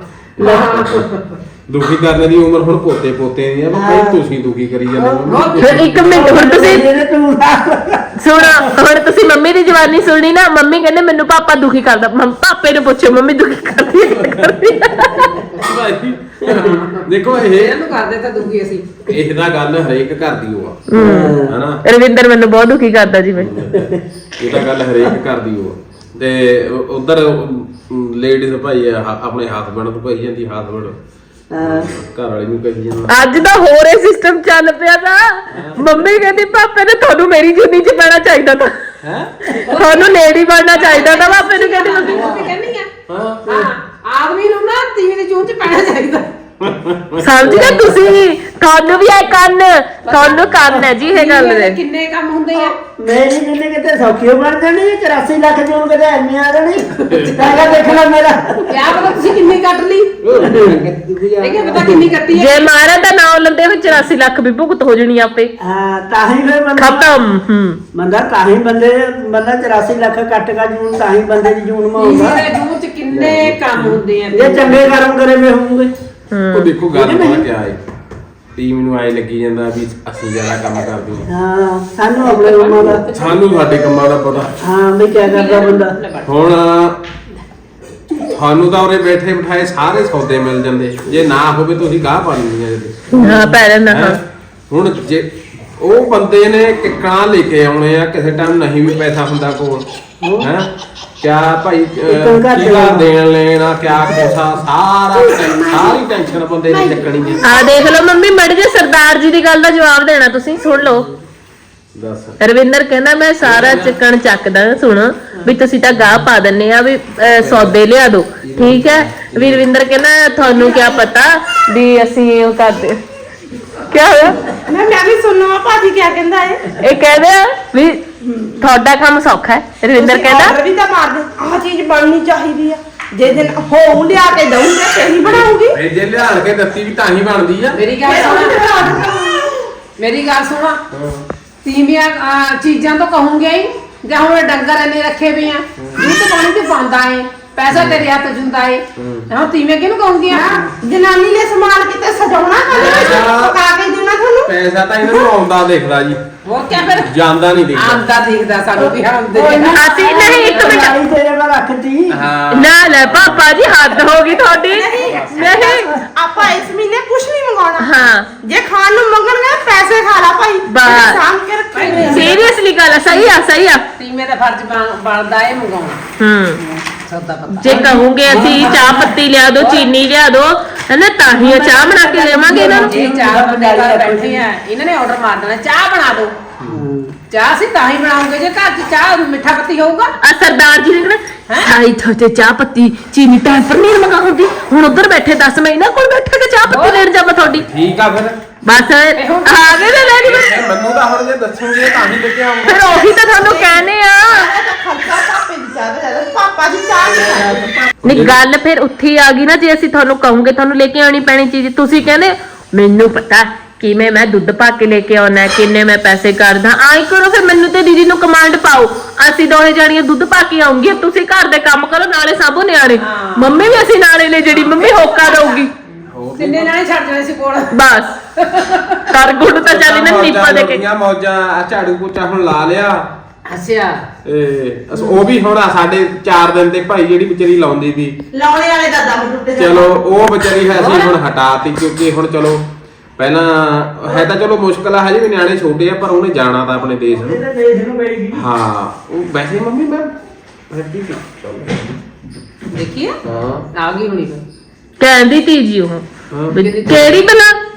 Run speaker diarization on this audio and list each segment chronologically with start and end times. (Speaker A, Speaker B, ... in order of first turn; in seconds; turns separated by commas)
Speaker A: 0.4-1.1, Speaker B: 0.4-1.4, Speaker A: 1.7-6.2, Speaker C: 3.7-4.2, Speaker C: 4.9-5.5, Speaker B: 5.3-5.7, Speaker D: 5.6-6.9, Speaker C: 6.0-8.7, Speaker D: 8.2-15.4, Speaker A: 14.2-14.6, Speaker A: 15.6-17.8, Speaker C: 16.4-16.7, Speaker B: 16.5-18.9, Speaker A: 19.1-20.9, Speaker D: 20.9-23.5, Speaker C: 20.9-21.6, Speaker A: 21.5-21.8, Speaker A: 23.4-31.0, Speaker C: 31.5-31.9, Speaker A: 31.6-33.2, Speaker D: 33.1-38.7, Speaker A: 35.5-35.9, Speaker A: 39.0-39.5, Speaker B: 39.6-40.2, Speaker D: 39.7-42.4, Speaker B: 40.7-42.9, Speaker C: 42.1-42.5, Speaker A: 43.1-43.7, Speaker B: 43.5-46.3, Speaker A: 46.6-47.5, Speaker D: 47.2-51.8, Speaker B: 47.5-47.8, Speaker B: 50.1-50.4, Speaker B: 51.1-52.8, Speaker C: 53.0-59.1, Speaker A: 57.1-57.9, Speaker B: 57.1-57.5, Speaker B: 58.7-60.1, Speaker A: 60.2-62.1, Speaker C: 60.4-61.0, Speaker B: 61.4-62.7, Speaker D: 62.3-65.5, Speaker C: 65.6-67.1, Speaker D: 66.8-67.8, Speaker C: 67.9-72.4, Speaker B: 72.0-74.8, Speaker A: 73.1-73.6, Speaker C: 73.8-75.9, Speaker D: 76.3-76.7, Speaker A: 76.5-77.8, Speaker C: 76.9-77.5, Speaker A: 78.5-81.3, Speaker C: 81.3-83.0, Speaker B: 82.2-83.6, Speaker A: 83.1-84.6, Speaker C: 84.6-86.0, Speaker B: 85.2-86.3, Speaker A: 86.3-87.0, Speaker A: 88.3-99.9, Speaker D: 93.1-94.2, Speaker C: 100.2-100.5, Speaker A: 100.4-107.5, Speaker C: 102.1-103.1, Speaker E: 105.2-106.0, Speaker E: 106.7-107.6, Speaker D: 107.4-111.1, Speaker A: 112.0-112.4, Speaker D: 112.4-123.0, Speaker A: 113.4-114.0, Speaker A: 117.2-117.8, Speaker A: 118.4-119.7, Speaker D: 123.9-124.4, Speaker E: 124.7-126.7, Speaker D: 126.8-128.0, Speaker D: 128.6-130.6, Speaker E: 129.9-135.8, Speaker C: 133.3-133.5, Speaker A: 135.2-137.8, Speaker B: 137.7-138.6, Speaker E: 138.0-139.5, Speaker B: 140.0-140.8, Speaker A: 140.9-141.3, Speaker B: 141.6-150.6, Speaker A: 145.8-146.2, Speaker A: 147.7-148.1, Speaker A: 149.0-149.3, Speaker E: 150.3-154.5, Speaker B: 152.7-153.3, Speaker A: 152.8-153.6, Speaker A: 154.4-156.2, Speaker B: 156.4-157.2, Speaker A: 156.9-158.0, Speaker B: 157.7-160.8, Speaker C: 158.8-162.2, Speaker D: 159.7-161.0, Speaker A: 162.1-163.6, Speaker D: 162.5-165.9, Speaker E: 164.5-172.3, Speaker A: 165.1-165.6, Speaker C: 165.8-166.5, Speaker D: 167.8-168.3, Speaker D: 170.7-171.2, Speaker B: 171.7-172.6, Speaker D: 171.9-173.8, Speaker B: 174.0-176.0, Speaker D: 176.2-176.6, Speaker C: 176.6-176.8, Speaker B: 177.1-179.0, Speaker C: 177.6-179.1, Speaker D: 177.6-182.9, Speaker B: 179.6-179.9, Speaker C: 181.2-184.4, Speaker B: 182.3-186.3, Speaker C: 186.7-187.2, Speaker B: 187.3-190.1, Speaker D: 190.2-197.7, Speaker B: 196.7-197.1, Speaker A: 197.4-198.4, Speaker D: 198.7-200.6, Speaker B: 199.2-200.3, Speaker A: 200.2-202.9, Speaker D: 202.7-204.5, Speaker E: 202.8-207.7, Speaker A: 208.0-208.4, Speaker D: 208.0-225.7, Speaker B: 223.0-223.7, Speaker B: 224.5-225.7, Speaker A: 226.1-226.7, Speaker B: 226.3-227.7, Speaker D: 227.7-228.1, Speaker B: 228.4-229.1, Speaker D: 229.1-230.8, Speaker A: 229.6-233.1, Speaker B: 233.5-234.0, Speaker A: 234.2-238.2, Speaker E: 238.3-240.0, Speaker A: 239.6-242.7, Speaker B: 240.7-241.1, Speaker A: 243.2-247.4, Speaker C: 247.1-248.4, Speaker A: 248.3-250.1, Speaker A: 250.7-252.0, Speaker B: 252.7-253.2, Speaker A: 253.2-253.7, Speaker B: 253.7-254.4, Speaker D: 255.0-257.6, Speaker A: 256.3-256.6, Speaker B: 256.6-257.3